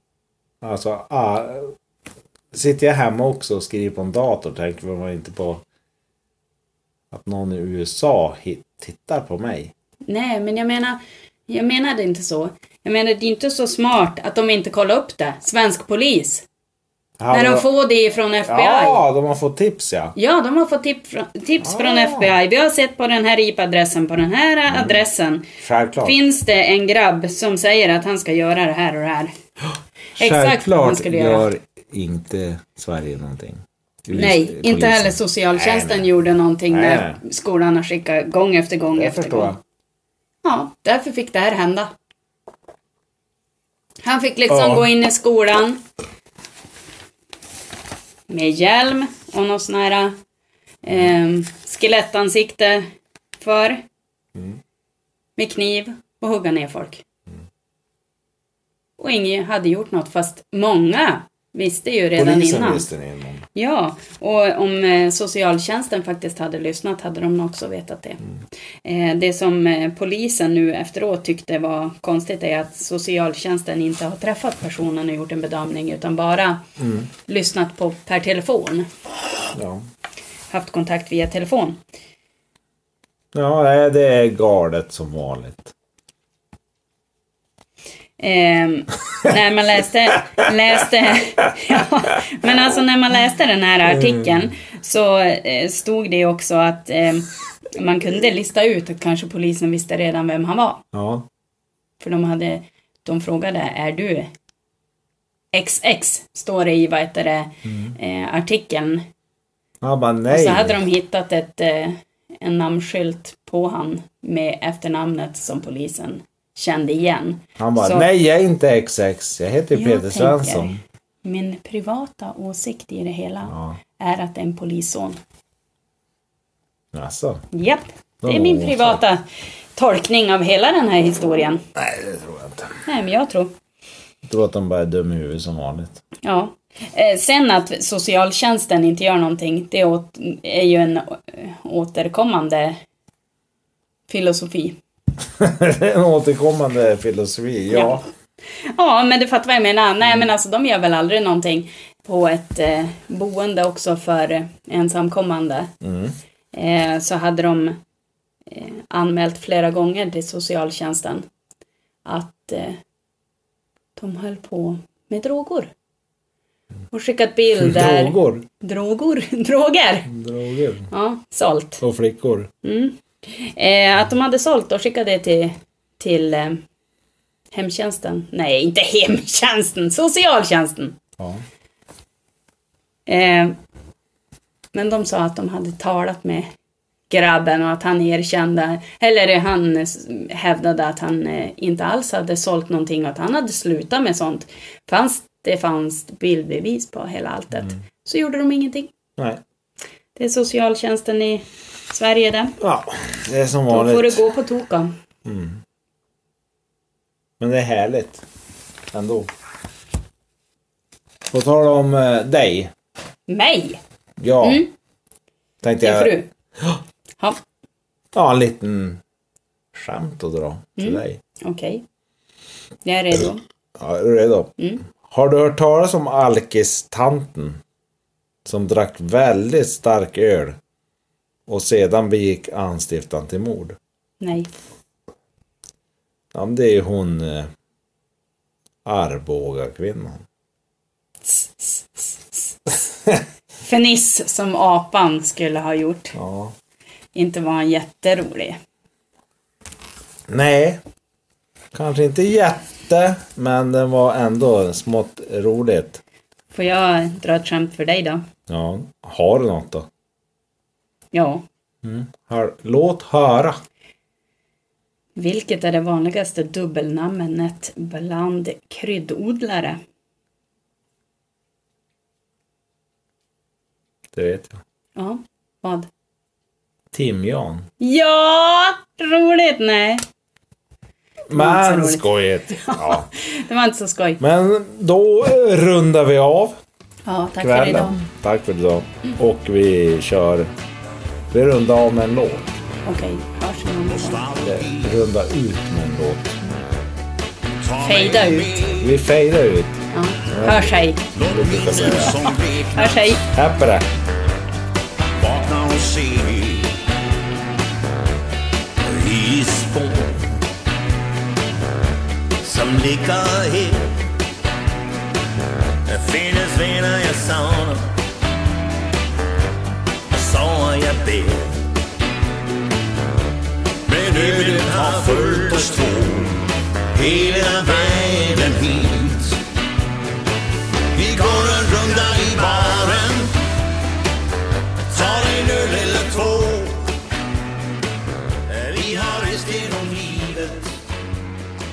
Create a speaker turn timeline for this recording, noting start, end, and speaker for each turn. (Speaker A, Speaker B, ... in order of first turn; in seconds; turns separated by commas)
Speaker A: 0.6-1.7, Speaker A: 2.5-5.6, Speaker A: 7.1-9.7, Speaker B: 10.1-16.4, Speaker A: 17.2-17.7, Speaker B: 17.3-19.0, Speaker A: 18.4-20.1, Speaker B: 20.1-25.5, Speaker A: 21.6-22.3, Speaker A: 24.7-25.0, Speaker A: 25.6-26.2, Speaker B: 26.0-29.3, Speaker B: 30.2-31.5, Speaker A: 30.2-36.1, Speaker B: 34.1-39.5, Speaker A: 36.7-37.2, Speaker A: 39.0-39.6, Speaker B: 40.4-41.9, Speaker B: 44.0-45.8, Speaker A: 44.5-44.9, Speaker B: 48.3-50.1, Speaker B: 50.8-52.9, Speaker B: 53.4-53.8, Speaker B: 55.4-57.0, Speaker B: 59.0-62.9, Speaker A: 62.2-63.4, Speaker B: 63.5-68.2, Speaker B: 68.8-76.6, Speaker A: 76.8-77.1, Speaker B: 77.2-78.9, Speaker A: 79.5-79.8, Speaker B: 80.5-81.8, Speaker A: 83.3-85.7, Speaker B: 88.2-100.8, Speaker A: 93.9-94.4, Speaker A: 100.9-101.2, Speaker B: 102.0-104.3, Speaker B: 105.5-109.0, Speaker A: 107.7-107.9, Speaker A: 109.8-110.8, Speaker B: 110.3-118.1, Speaker A: 117.6-120.8, Speaker B: 119.7-125.2, Speaker A: 123.5-123.8, Speaker A: 126.9-127.5, Speaker B: 127.5-129.2, Speaker A: 128.2-129.0, Speaker B: 129.8-131.6, Speaker A: 131.8-132.7, Speaker B: 132.8-133.5, Speaker A: 134.2-136.0, Speaker B: 136.2-142.8, Speaker B: 144.1-144.8, Speaker A: 145.4-148.0, Speaker B: 147.7-148.0, Speaker B: 148.6-155.7, Speaker A: 155.8-156.2, Speaker B: 156.5-157.8, Speaker B: 158.5-161.2, Speaker B: 162.0-162.8, Speaker B: 163.9-165.7, Speaker B: 166.9-170.1, Speaker A: 167.6-168.4, Speaker A: 170.1-170.9, Speaker B: 170.9-171.8, Speaker A: 171.8-172.5, Speaker B: 172.6-176.6, Speaker B: 177.5-181.0, Speaker A: 181.2-181.4, Speaker B: 183.1-183.6, Speaker B: 184.7-186.5, Speaker B: 187.1-198.9, Speaker B: 200.2-202.6, Speaker A: 202.6-204.2, Speaker B: 203.7-204.9, Speaker A: 205.2-205.6, Speaker A: 207.4-208.2, Speaker A: 208.9-209.3, Speaker A: 211.3-212.7, Speaker B: 213.3-213.8, Speaker A: 214.2-214.6, Speaker B: 214.4-214.7, Speaker A: 215.6-216.8, Speaker B: 215.8-216.3, Speaker A: 218.1-219.0, Speaker A: 219.7-221.2, Speaker B: 220.8-221.8, Speaker B: 222.8-223.4, Speaker A: 223.8-227.6, Speaker B: 224.6-224.8, Speaker A: 228.4-230.6, Speaker A: 231.5-233.8, Speaker B: 234.2-234.5, Speaker A: 236.3-237.5, Speaker A: 238.8-240.2, Speaker B: 241.2-242.5, Speaker B: 243.6-246.2, Speaker A: 246.1-246.5, Speaker B: 247.1-248.6, Speaker A: 250.3-250.8, Speaker A: 251.7-256.0, Speaker B: 256.5-258.2, Speaker A: 258.5-259.9, Speaker B: 261.1-261.4, Speaker A: 261.8-263.6, Speaker B: 265.1-269.8, Speaker A: 274.1-274.6, Speaker B: 274.9-275.9, Speaker A: 276.9-277.7, Speaker B: 277.8-280.0, Speaker A: 281.3-283.1, Speaker B: 281.3-284.2, Speaker A: 284.2-286.6, Speaker B: 287.1-288.0, Speaker A: 287.4-290.5, Speaker A: 291.3-292.5, Speaker B: 292.8-294.2, Speaker C: 293.9-294.9, Speaker A: 294.4-296.6, Speaker C: 297.6-298.9, Speaker B: 297.8-298.7, Speaker A: 298.8-302.3, Speaker B: 299.9-301.0, Speaker C: 301.1-303.2, Speaker B: 301.8-303.2, Speaker A: 303.2-303.9, Speaker C: 305.1-306.8, Speaker C: 308.8-310.4, Speaker C: 312.4-313.9, Speaker C: 315.9-317.9, Speaker C: 320.1-321.6, Speaker C: 323.9-329.4, Speaker C: 330.9-333.4, Speaker C: 334.9-336.9, Speaker C: 338.5-340.8